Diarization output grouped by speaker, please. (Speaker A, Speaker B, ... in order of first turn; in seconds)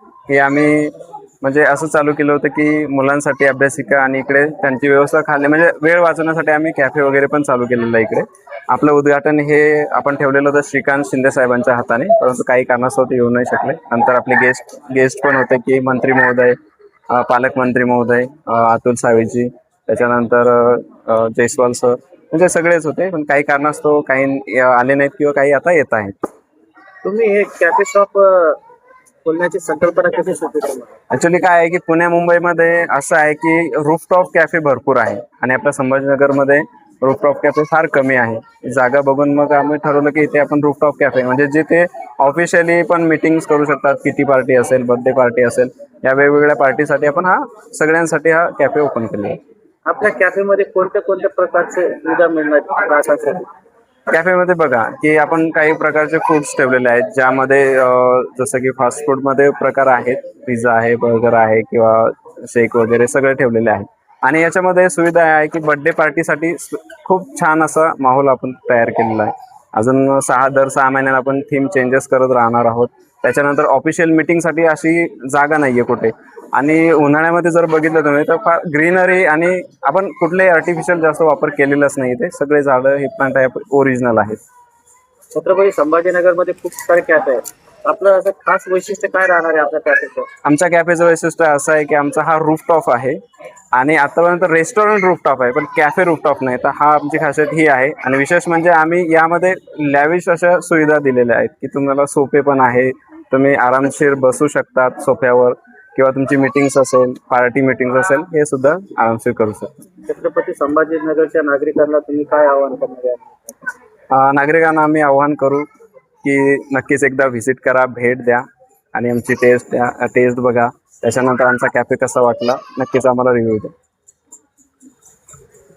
Speaker A: 0.3-16.6, 17.1-26.1, 31.1-49.4, 54.1-84.4, 90.4-93.2, 93.7-109.8, 114.1-115.7, 116.2-118.4, 118.9-123.7
Speaker B: 27.0-28.2, 29.2-30.8, 49.9-53.4, 85.4-90.2, 110.1-113.3